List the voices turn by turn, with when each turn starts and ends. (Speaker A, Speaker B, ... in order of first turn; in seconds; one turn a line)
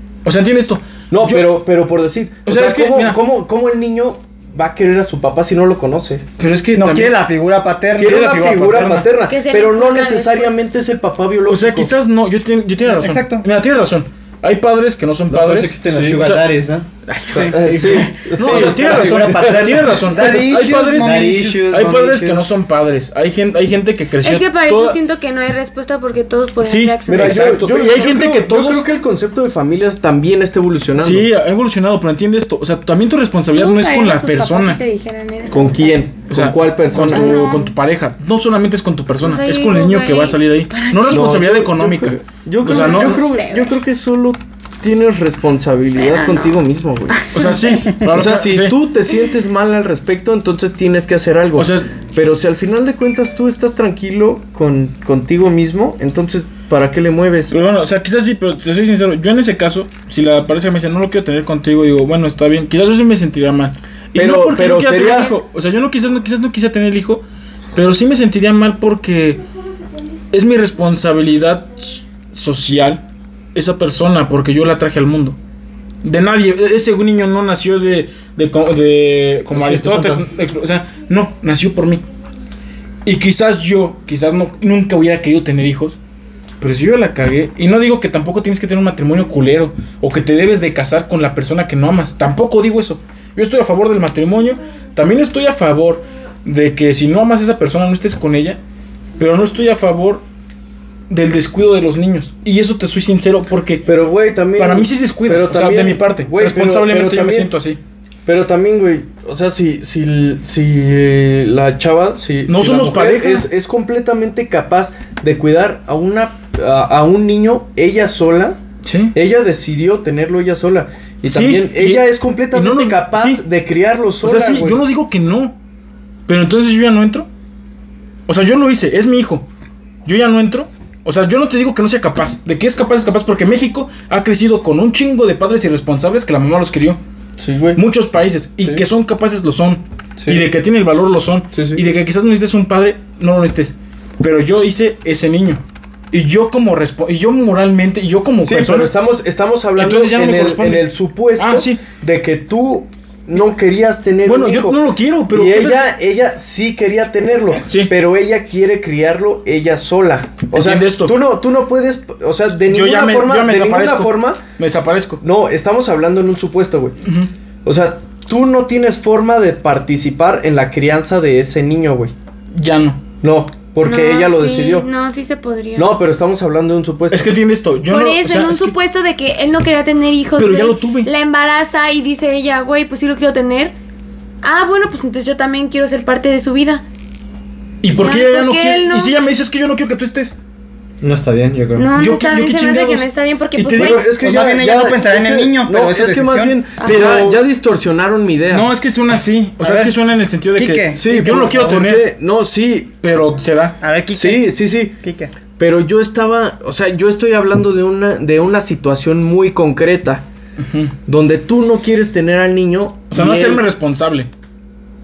Speaker A: 0.2-1.5
Speaker B: 1.1-6.2
Speaker A: 2.5-3.2
Speaker A: 6.4-7.2
Speaker C: 6.7-8.3
Speaker B: 8.0-11.9
Speaker A: 8.0-9.1
Speaker D: 9.3-10.6
Speaker A: 11.5-16.5
Speaker C: 12.9-13.4
Speaker E: 15.3-16.9
Speaker B: 15.8-16.2
Speaker A: 17.1-25.0
Speaker B: 17.3-19.8
Speaker E: 17.7-22.5
Speaker C: 20.0-21.9
Speaker D: 24.2-27.8
Speaker A: 26.6-28.8
Speaker B: 27.1-31.3
Speaker A: 31.0-34.8
Speaker D: 33.5-36.0
Speaker B: 35.5-37.5
Speaker A: 36.3-43.2
Speaker D: 36.9-37.7
Speaker D: 39.2-41.3
Speaker B: 41.1-47.3
Speaker D: 42.6-43.7
Speaker D: 46.0-46.6
Speaker D: 47.1-47.6
Speaker A: 47.3-48.8
Speaker B: 48.0-57.6
Speaker A: 51.5-51.9
Speaker A: 57.5-69.4
Speaker B: 64.1-65.3
Speaker A: 70.3-75.4
Speaker A: 76.0-82.0
Speaker E: 79.5-80.2
Speaker A: 83.0-86.0
Speaker A: 86.6-98.6
Speaker A: 99.2-100.2
Speaker A: 101.1-103.9
Speaker B: 103.8-107.5
Speaker A: 104.5-107.8
Speaker B: 108.3-118.6
Speaker A: 112.5-113.5
Speaker A: 118.8-119.1
Speaker B: 119.1-124.8
Speaker A: 121.2-123.4
Speaker A: 124.2-125.6
Speaker A: 126.3-127.3
Speaker A: 128.3-129.5
Speaker A: 130.1-137.0
Speaker B: 137.4-137.8
Speaker A: 137.7-148.9
Speaker B: 140.2-140.5
Speaker B: 141.5-141.8
Speaker B: 148.4-164.4
Speaker A: 149.7-151.8
Speaker A: 154.3-155.9
Speaker A: 157.6-157.9
Speaker A: 160.5-161.2
Speaker A: 162.7-165.2
Speaker B: 165.2-166.9
Speaker A: 167.0-167.3
Speaker B: 167.6-172.1
Speaker A: 172.6-173.0
Speaker B: 173.2-174.8
Speaker D: 173.8-175.9
Speaker B: 175.8-177.3
Speaker A: 177.1-178.8
Speaker D: 177.9-183.7
Speaker A: 180.4-181.1
Speaker D: 184.4-186.8
Speaker A: 187.8-190.4
Speaker D: 188.0-189.1
Speaker E: 191.0-191.9
Speaker D: 191.8-194.0
Speaker A: 191.9-194.1
Speaker B: 193.7-198.7
Speaker C: 194.1-196.6
Speaker D: 196.8-197.1
Speaker A: 196.8-197.4
Speaker A: 198.5-202.1
Speaker C: 199.6-199.9
Speaker C: 200.6-201.0
Speaker B: 200.9-202.9
Speaker A: 203.0-203.8
Speaker C: 203.8-205.3
Speaker B: 204.1-205.0
Speaker B: 205.5-210.2
Speaker A: 210.6-210.9
Speaker B: 211.1-213.6
Speaker A: 213.1-214.3